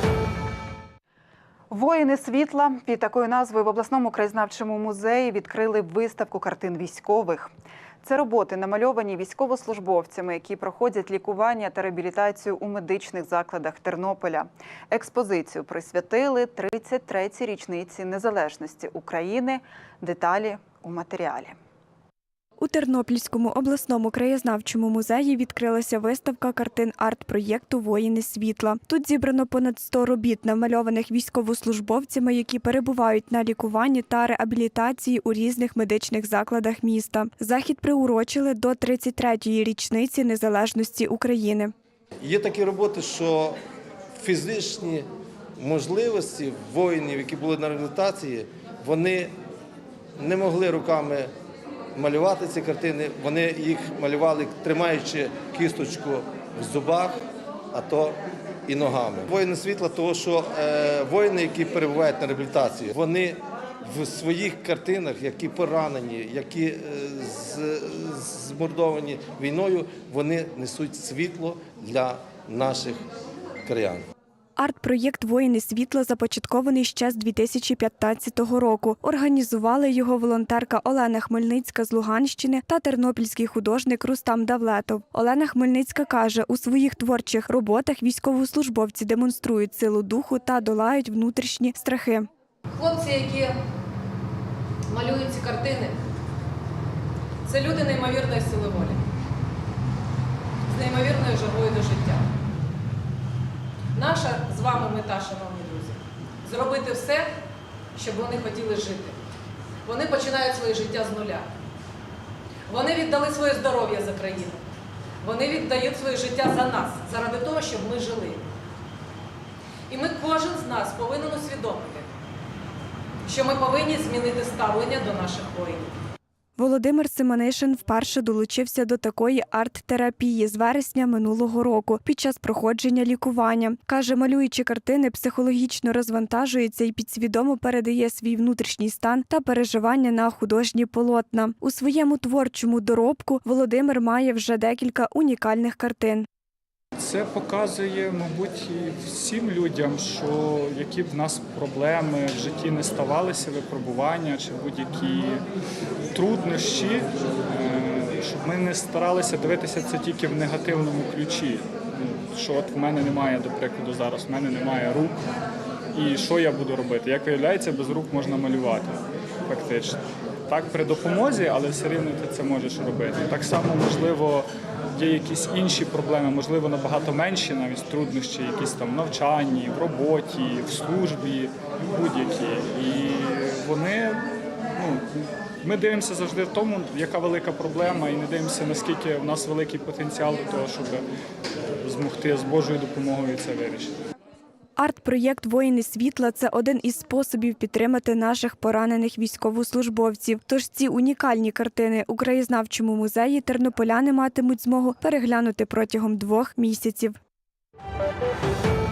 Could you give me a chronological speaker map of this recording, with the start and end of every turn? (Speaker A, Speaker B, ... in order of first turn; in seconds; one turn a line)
Speaker A: 1.7-7.5
Speaker A: 8.0-21.6
Speaker B: 22.6-41.7
Speaker C: 42.2-43.6
Speaker C: 44.1-49.3
Speaker C: 50.2-51.3
Speaker C: 51.9-57.2
Speaker C: 57.7-73.0
Speaker C: 73.6-74.1
Speaker B: 74.6-92.3
Speaker D: 92.7-93.5
Speaker D: 94.9-96.0
Speaker D: 97.5-99.0
Speaker D: 100.7-102.2
Speaker D: 103.9-107.3
Speaker D: 107.9-109.2
Speaker D: 109.8-111.5
Speaker D: 112.7-114.6
Speaker D: 115.2-118.4
Speaker D: 119.9-122.1
Speaker D: 123.2-125.9
Speaker B: 126.6-146.3
Speaker E: 146.9-155.4
Speaker E: 156.1-165.1
Speaker E: 165.9-184.2
Speaker E: 184.7-191.0
Speaker E: 191.8-194.0
Speaker B: 194.8-207.2